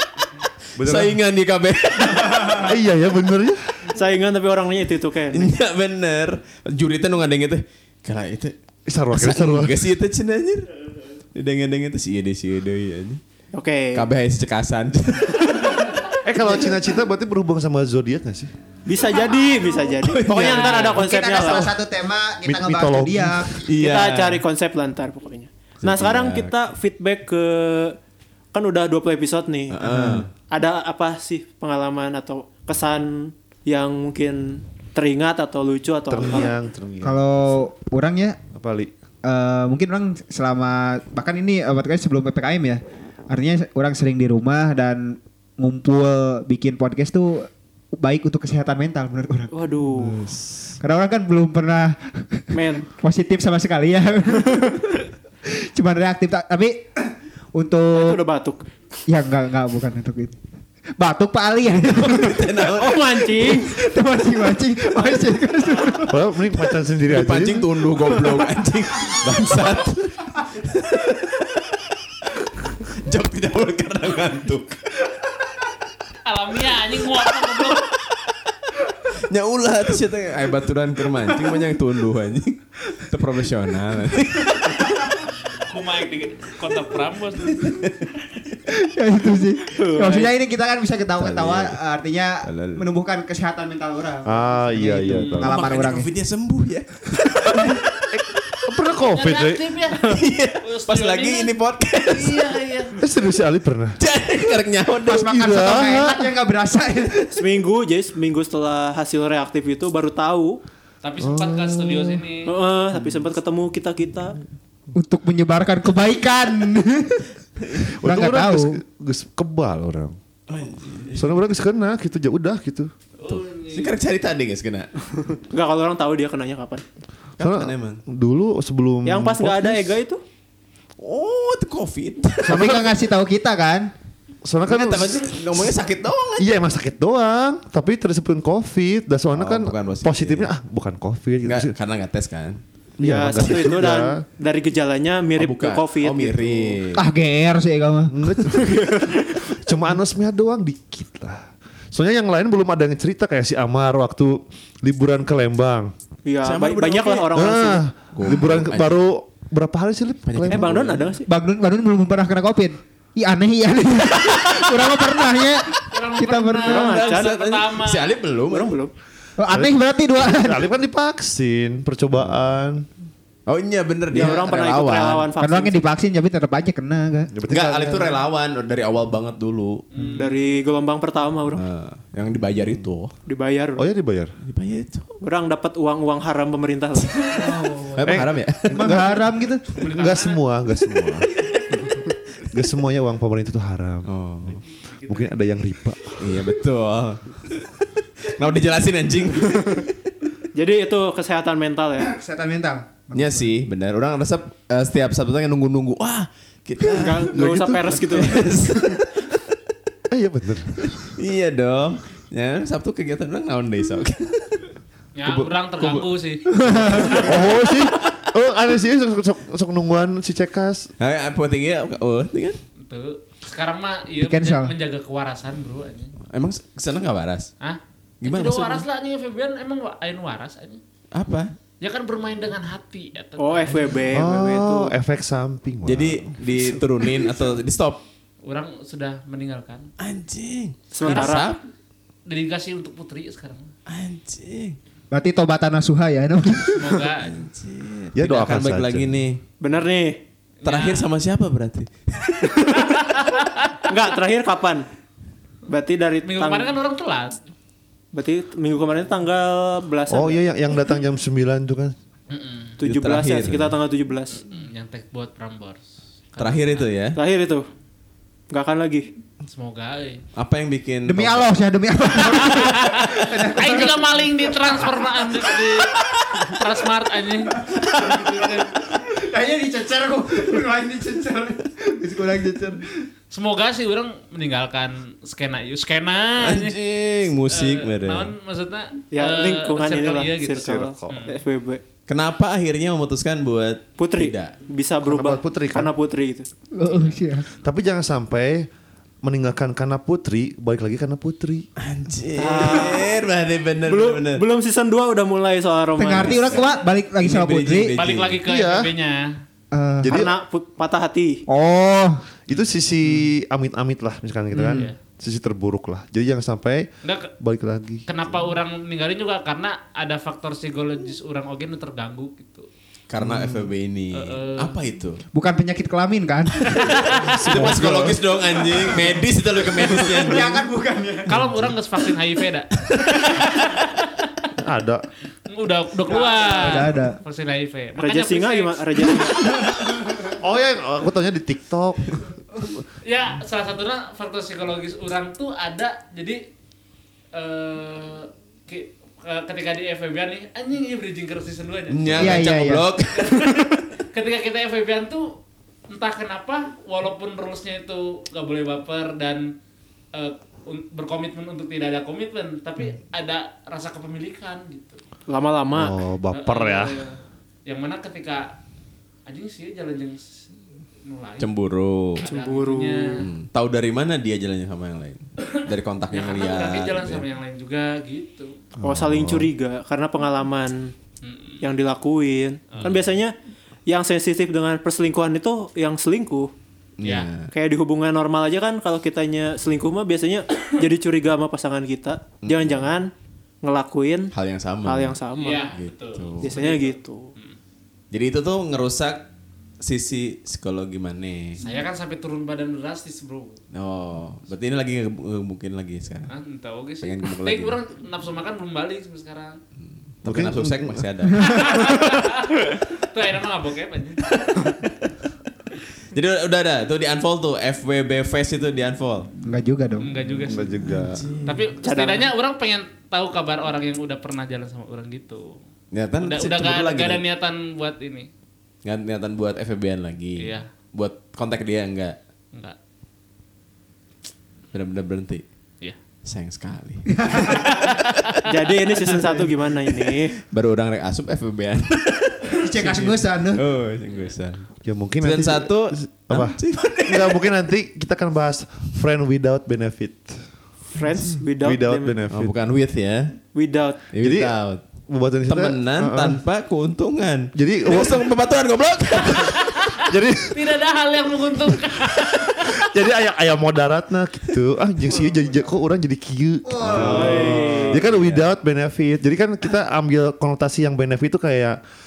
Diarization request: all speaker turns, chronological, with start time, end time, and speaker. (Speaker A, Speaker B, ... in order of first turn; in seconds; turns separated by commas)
Speaker A: 0.8-1.2, Speaker B: 0.8-2.8, Speaker A: 2.5-3.8, Speaker C: 3.9-5.5, Speaker B: 5.3-8.5, Speaker A: 8.9-9.9, Speaker B: 9.1-10.8, Speaker B: 11.3-13.2, Speaker C: 13.5-14.1, Speaker B: 13.9-15.9, Speaker A: 16.2-18.5, Speaker C: 18.9-21.7, Speaker B: 19.9-21.1, Speaker D: 20.8-23.5, Speaker A: 22.4-23.6, Speaker B: 23.6-24.4, Speaker C: 23.8-28.0, Speaker B: 25.8-26.5, Speaker C: 28.5-29.8, Speaker B: 29.7-30.3, Speaker D: 29.8-30.3, Speaker C: 30.5-36.5, Speaker A: 36.1-37.6, Speaker D: 37.0-38.4, Speaker A: 38.5-38.9, Speaker D: 39.2-49.5, Speaker C: 49.5-50.2, Speaker A: 50.0-50.8, Speaker D: 50.8-58.2, Speaker C: 52.5-52.9, Speaker C: 57.9-58.7, Speaker D: 59.1-60.4, Speaker D: 61.0-62.5, Speaker B: 62.0-63.2, Speaker C: 62.6-63.8, Speaker D: 63.4-66.2, Speaker A: 66.1-67.7, Speaker B: 67.1-71.6, Speaker B: 72.7-75.1, Speaker E: 76.2-77.9, Speaker B: 77.9-78.4, Speaker B: 79.0-85.1, Speaker E: 85.5-87.8, Speaker B: 87.5-88.3, Speaker D: 88.7-96.1, Speaker C: 89.7-90.3, Speaker B: 91.2-91.8, Speaker B: 92.4-92.8, Speaker A: 94.2-95.5, Speaker E: 95.0-95.5, Speaker B: 95.4-98.1, Speaker A: 98.1-99.7, Speaker E: 99.0-101.5, Speaker B: 100.0-102.9, Speaker E: 102.1-103.0, Speaker A: 103.0-104.0, Speaker B: 104.0-105.3, Speaker D: 105.0-107.3, Speaker A: 105.1-106.3, Speaker C: 107.3-110.6, Speaker E: 111.0-112.5, Speaker A: 111.2-112.2, Speaker C: 112.4-114.4, Speaker D: 114.9-117.3, Speaker A: 118.0-120.2, Speaker D: 118.0-118.8, Speaker B: 120.5-121.4, Speaker A: 121.1-122.9, Speaker E: 123.2-123.9, Speaker B: 123.3-124.9, Speaker C: 125.3-126.8, Speaker B: 127.4-128.0, Speaker A: 127.4-129.9, Speaker C: 129.0-130.2, Speaker B: 131.0-132.8, Speaker A: 132.4-132.9, Speaker D: 132.4-133.9, Speaker A: 134.4-135.3, Speaker B: 134.7-136.6, Speaker A: 136.4-141.7, Speaker B: 139.3-140.5, Speaker B: 141.4-142.6, Speaker A: 143.0-144.2, Speaker C: 143.0-146.8, Speaker B: 145.3-147.1, Speaker D: 146.9-148.2, Speaker A: 148.1-155.9, Speaker C: 148.6-149.2, Speaker C: 156.2-157.8, Speaker B: 156.4-157.5, Speaker A: 157.3-161.0, Speaker B: 158.1-159.1, Speaker B: 160.2-161.1, Speaker C: 160.5-161.3, Speaker D: 161.2-166.9, Speaker E: 165.9-168.2, Speaker C: 166.6-167.3, Speaker B: 166.8-168.8, Speaker C: 168.5-168.9, Speaker D: 169.4-170.7, Speaker A: 170.2-172.9, Speaker B: 173.5-175.3, Speaker C: 174.1-175.8, Speaker D: 175.4-177.5, Speaker A: 177.3-178.2, Speaker B: 177.5-179.8, Speaker E: 179.9-180.4, Speaker C: 180.1-181.6, Speaker B: 181.5-183.1, Speaker C: 183.2-183.9, Speaker A: 183.8-184.3, Speaker B: 184.4-185.1, Speaker C: 185.2-187.3, Speaker D: 187.3-189.7, Speaker B: 187.9-189.1, Speaker A: 188.0-191.3, Speaker E: 189.8-190.4, Speaker B: 191.4-192.0, Speaker A: 192.5-196.4, Speaker B: 194.1-194.6, Speaker E: 194.8-195.3, Speaker B: 196.2-199.9, Speaker C: 200.5-202.1, Speaker D: 202.0-203.5, Speaker B: 203.1-209.4, Speaker C: 206.9-209.0, Speaker A: 210.1-211.0, Speaker B: 210.8-214.7, Speaker E: 215.1-217.4, Speaker A: 215.2-216.1, Speaker D: 216.6-217.3, Speaker A: 216.8-220.9, Speaker B: 221.0-222.6, Speaker E: 222.8-226.1, Speaker D: 224.2-224.7, Speaker B: 226.3-227.5, Speaker E: 227.6-230.8, Speaker B: 228.2-228.8, Speaker B: 231.1-231.6, Speaker E: 231.8-234.0, Speaker C: 233.4-234.9, Speaker A: 234.1-236.4, Speaker B: 235.8-238.0, Speaker E: 238.4-239.9, Speaker B: 240.0-241.6, Speaker C: 240.9-241.5, Speaker E: 241.0-241.4, Speaker E: 242.3-243.7, Speaker B: 243.9-244.8, Speaker D: 245.1-247.0, Speaker E: 246.7-247.4, Speaker B: 247.2-249.4, Speaker A: 248.1-249.2, Speaker C: 249.6-250.2, Speaker E: 250.6-251.1, Speaker B: 250.6-252.8, Speaker C: 252.5-252.9, Speaker E: 252.6-253.9, Speaker C: 253.8-254.9, Speaker C: 255.7-256.7, Speaker E: 256.2-257.4, Speaker C: 258.1-260.4, Speaker A: 260.1-261.9, Speaker E: 262.3-262.8, Speaker C: 262.8-264.4, Speaker B: 262.8-263.8, Speaker E: 264.4-266.9, Speaker B: 266.4-267.2, Speaker C: 267.1-267.7, Speaker C: 268.5-269.1, Speaker E: 269.5-270.2, Speaker B: 270.3-271.5, Speaker D: 271.1-276.5, Speaker E: 272.2-278.7, Speaker D: 277.5-283.1, Speaker E: 283.3-286.8, Speaker B: 286.4-288.3, Speaker E: 287.4-291.4, Speaker C: 289.1-291.8, Speaker A: 290.5-291.2, Speaker B: 292.1-294.5, Speaker C: 294.0-296.5, Speaker A: 295.0-295.9, Speaker D: 296.7-297.5, Speaker E: 296.9-297.1, Speaker A: 297.5-298.7, Speaker A: 299.2-301.7, Speaker B: 301.8-304.4, Speaker C: 302.4-303.1, Speaker C: 303.8-306.6, Speaker D: 306.0-307.9, Speaker B: 306.1-306.6, Speaker B: 307.2-308.4, Speaker E: 307.9-309.4, Speaker A: 308.4-308.9, Speaker D: 309.7-310.3, Speaker A: 310.0-310.3, Speaker C: 310.1-311.4, Speaker D: 311.5-312.2, Speaker A: 312.5-316.9, Speaker D: 314.5-314.9, Speaker E: 314.6-315.0, Speaker E: 317.0-317.3, Speaker A: 317.4-318.4, Speaker E: 318.1-322.7, Speaker B: 323.1-325.2, Speaker A: 323.2-323.5, Speaker E: 324.1-324.8, Speaker D: 325.3-329.2, Speaker E: 326.7-327.8, Speaker B: 327.4-330.6, Speaker A: 327.6-328.1, Speaker D: 329.7-331.7, Speaker E: 329.9-330.3, Speaker E: 331.3-334.5, Speaker B: 332.8-333.1, Speaker A: 334.6-335.1, Speaker E: 335.5-339.6, Speaker D: 336.1-337.2, Speaker C: 338.0-339.4, Speaker D: 339.3-340.4, Speaker A: 340.2-342.3, Speaker E: 343.0-346.4, Speaker E: 347.3-355.4, Speaker B: 351.9-353.5, Speaker D: 352.2-352.9, Speaker E: 355.9-359.5, Speaker E: 360.1-365.0, Speaker C: 365.3-365.9, Speaker A: 365.7-366.9, Speaker E: 366.3-368.6, Speaker E: 369.3-370.4, Speaker E: 371.0-371.5, Speaker B: 371.4-372.2, Speaker E: 372.1-373.2, Speaker C: 372.2-373.2, Speaker B: 373.2-377.2, Speaker E: 375.4-378.5, Speaker A: 378.8-379.5, Speaker C: 378.8-380.9, Speaker E: 381.2-381.6, Speaker C: 381.6-383.3, Speaker E: 382.7-383.0, Speaker C: 383.9-386.5, Speaker B: 387.0-387.5, Speaker E: 387.0-387.3, Speaker C: 387.5-393.1, Speaker B: 392.4-392.9, Speaker C: 393.6-394.3, Speaker B: 394.3-395.2, Speaker C: 394.8-395.7, Speaker E: 395.3-397.6, Speaker B: 395.7-396.7, Speaker C: 396.4-397.3, Speaker B: 398.1-399.2, Speaker B: 399.8-401.6, Speaker E: 401.6-403.6, Speaker B: 403.7-406.3, Speaker E: 406.3-409.6, Speaker B: 407.0-407.8, Speaker B: 410.2-411.6, Speaker A: 410.2-411.0, Speaker E: 411.4-414.2, Speaker B: 416.1-419.3, Speaker D: 419.4-420.4, Speaker E: 420.0-420.7, Speaker A: 420.4-421.3, Speaker B: 420.8-421.7, Speaker E: 421.4-425.6, Speaker C: 421.8-422.3, Speaker B: 425.9-427.2, Speaker E: 426.2-428.3, Speaker B: 428.8-432.2, Speaker E: 430.4-430.7, Speaker B: 434.7-435.4, Speaker B: 436.2-438.3, Speaker D: 437.1-437.7, Speaker E: 437.6-438.4, Speaker C: 438.4-440.4, Speaker D: 439.2-439.5, Speaker B: 440.5-447.5, Speaker D: 442.5-443.6, Speaker A: 444.8-450.4, Speaker C: 450.9-452.2, Speaker A: 451.6-452.5, Speaker B: 452.3-453.4, Speaker C: 453.5-454.0, Speaker B: 454.1-454.8, Speaker A: 454.2-454.6, Speaker A: 455.1-456.4, Speaker B: 455.5-459.7, Speaker A: 457.5-458.2, Speaker E: 459.2-462.9, Speaker A: 460.1-460.6, Speaker A: 462.8-471.8, Speaker D: 465.1-465.8, Speaker D: 466.6-467.8, Speaker B: 466.8-468.4, Speaker C: 467.0-468.0